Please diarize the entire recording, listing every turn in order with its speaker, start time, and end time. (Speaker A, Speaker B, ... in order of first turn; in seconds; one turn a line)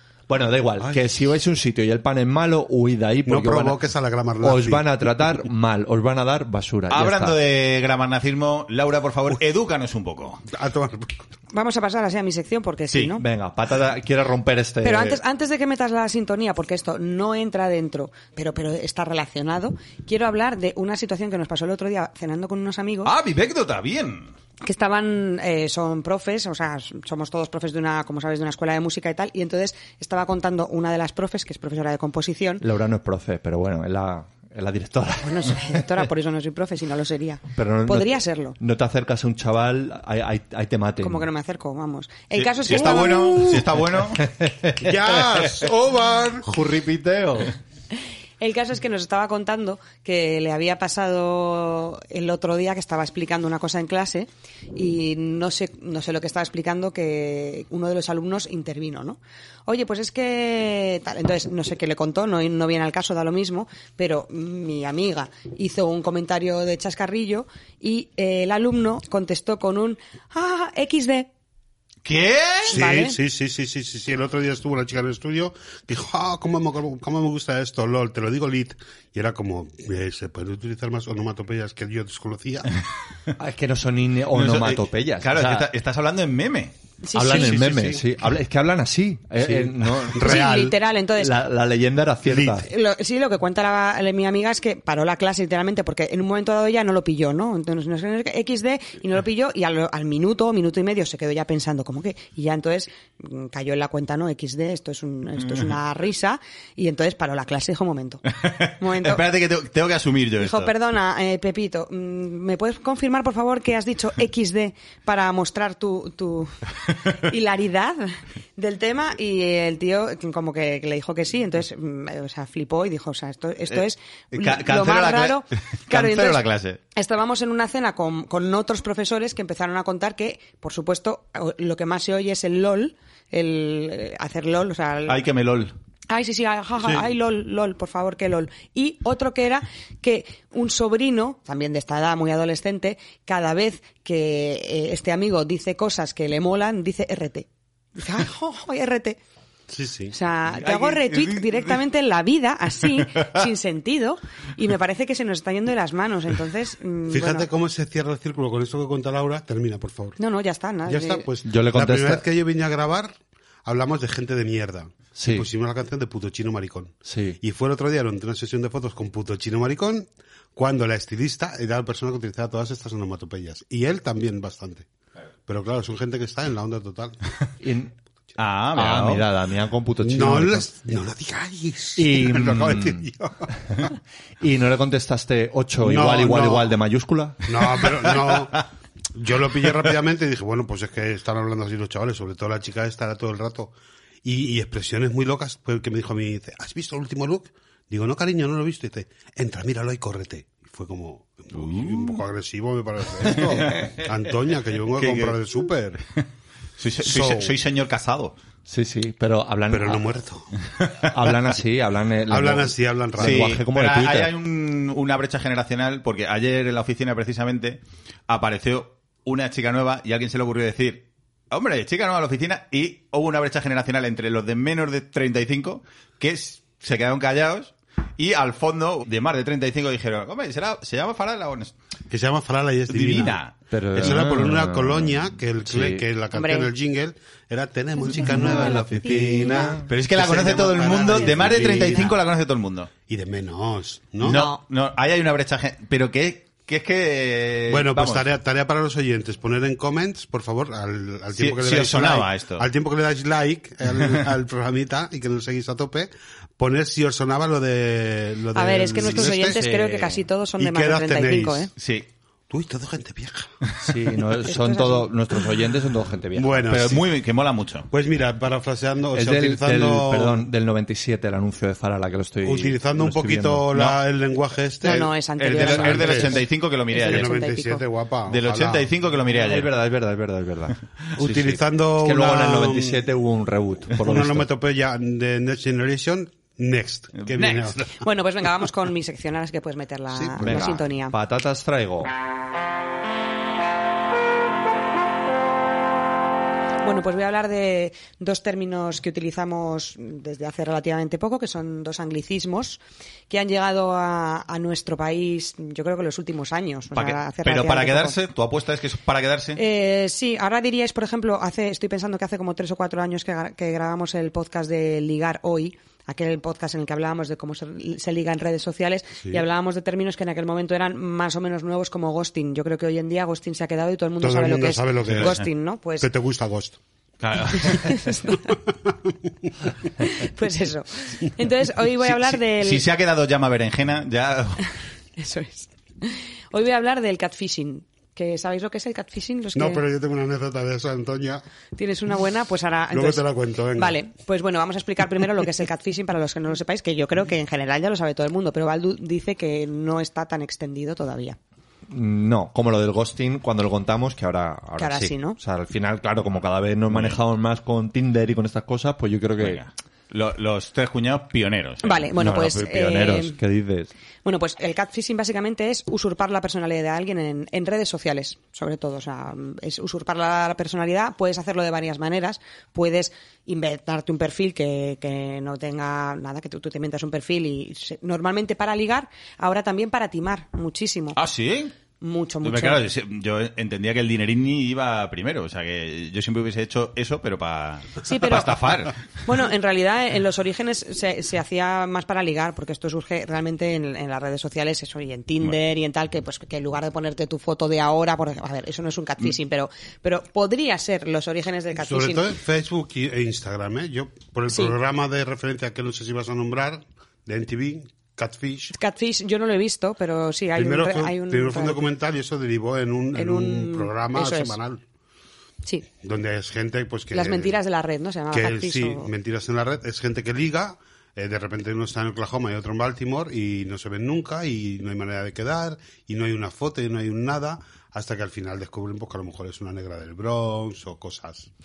Speaker A: 0.3-3.8
Speaker B: 3.2-4.8
Speaker A: 4.4-7.4
Speaker C: 6.9-10.4
Speaker B: 10.5-11.2
Speaker D: 11.5-13.2
Speaker A: 13.2-15.2
Speaker D: 14.8-23.1
Speaker C: 23.0-24.3
Speaker D: 24.6-32.6
Speaker A: 32.6-35.9
Speaker D: 35.2-38.5
Speaker A: 37.5-41.3
Speaker D: 41.0-43.5
Speaker C: 42.4-44.2
Speaker B: 42.7-43.6
Speaker A: 44.2-45.7
Speaker B: 44.7-46.5
Speaker A: 46.4-47.5
Speaker D: 48.4-71.3
Speaker C: 72.0-72.8
Speaker B: 72.7-82.8
Speaker D: 72.7-73.2
Speaker A: 83.4-85.7
Speaker C: 84.3-86.7
Speaker D: 87.0-87.6
Speaker A: 87.1-90.7
Speaker B: 87.3-88.0
Speaker B: 89.4-90.7
Speaker D: 90.2-91.3
Speaker A: 91.2-92.7
Speaker B: 92.2-92.6
Speaker D: 92.6-108.2
Speaker C: 108.4-110.7
Speaker D: 108.8-109.2
Speaker D: 110.4-135.2
Speaker C: 124.3-126.8
Speaker C: 135.1-135.7
Speaker D: 136.1-149.2
Speaker B: 149.7-150.1
Speaker D: 150.1-157.5
Speaker C: 150.6-151.8
Speaker B: 157.1-160.2
Speaker D: 160.2-161.2
Speaker B: 160.8-174.8
Speaker A: 161.4-162.2
Speaker A: 165.2-165.5
Speaker A: 167.0-167.4
Speaker B: 175.5-177.2
Speaker A: 177.6-177.9
Speaker C: 178.4-179.2
Speaker A: 178.7-180.7
Speaker B: 180.0-183.9
Speaker A: 181.9-183.0
Speaker A: 183.7-187.8
Speaker B: 185.8-186.7
Speaker B: 187.4-193.7
Speaker B: 194.2-206.0
Speaker C: 201.6-202.2
Speaker C: 203.4-203.9
Speaker C: 204.9-205.4
Speaker C: 206.8-208.3
Speaker B: 207.0-207.5
Speaker A: 208.7-210.0
Speaker B: 209.7-210.5
Speaker A: 211.1-214.3
Speaker B: 212.3-213.5
Speaker C: 213.2-231.7
Speaker B: 232.1-233.4
Speaker C: 232.9-234.2
Speaker A: 233.7-236.1
Speaker B: 233.9-242.2
Speaker D: 236.3-236.7
Speaker A: 238.1-239.8
Speaker D: 238.5-239.3
Speaker C: 239.9-242.9
Speaker B: 243.1-244.4
Speaker D: 244.2-244.6
Speaker C: 244.2-248.2
Speaker B: 247.7-259.6
Speaker C: 251.3-252.7
Speaker D: 258.5-261.7
Speaker A: 259.0-260.2
Speaker B: 260.6-261.7
Speaker C: 261.8-262.1
Speaker B: 262.5-263.5
Speaker A: 263.8-266.7
Speaker D: 264.4-265.1
Speaker B: 266.3-267.1
Speaker C: 266.7-267.9
Speaker B: 267.9-270.4
Speaker A: 269.1-273.7
Speaker B: 272.4-276.4
Speaker D: 274.8-277.8
Speaker C: 275.4-277.3
Speaker B: 277.0-278.9
Speaker C: 278.3-279.7
Speaker A: 279.3-284.5
Speaker B: 281.2-283.0
Speaker B: 284.0-288.0
Speaker C: 287.2-287.7
Speaker D: 288.0-291.1
Speaker B: 290.1-290.8
Speaker A: 290.4-292.1
Speaker D: 296.8-308.1
Speaker C: 306.9-309.6
Speaker D: 309.6-326.1
Speaker B: 324.2-325.5
Speaker C: 325.0-325.4
Speaker B: 326.0-326.8
Speaker C: 327.2-328.1
Speaker D: 327.5-328.5
Speaker B: 328.9-329.3
Speaker D: 330.0-332.8
Speaker C: 332.0-334.7
Speaker D: 335.2-339.8
Speaker B: 339.5-341.4
Speaker D: 341.8-351.4
Speaker B: 342.9-344.0
Speaker A: 351.9-359.6
Speaker D: 354.8-355.4
Speaker C: 356.9-357.2
Speaker C: 359.4-362.1
Speaker D: 361.8-363.4
Speaker A: 362.1-363.9
Speaker D: 364.2-381.2
Speaker C: 381.1-381.7
Speaker D: 382.0-382.9
Speaker C: 382.4-389.0
Speaker D: 388.0-388.6
Speaker D: 389.2-402.3
Speaker B: 401.8-408.7
Speaker D: 404.5-404.7
Speaker D: 408.7-411.9
Speaker B: 410.6-414.8
Speaker D: 413.1-414.6
Speaker B: 416.0-417.5
Speaker D: 417.1-419.1
Speaker B: 418.3-431.5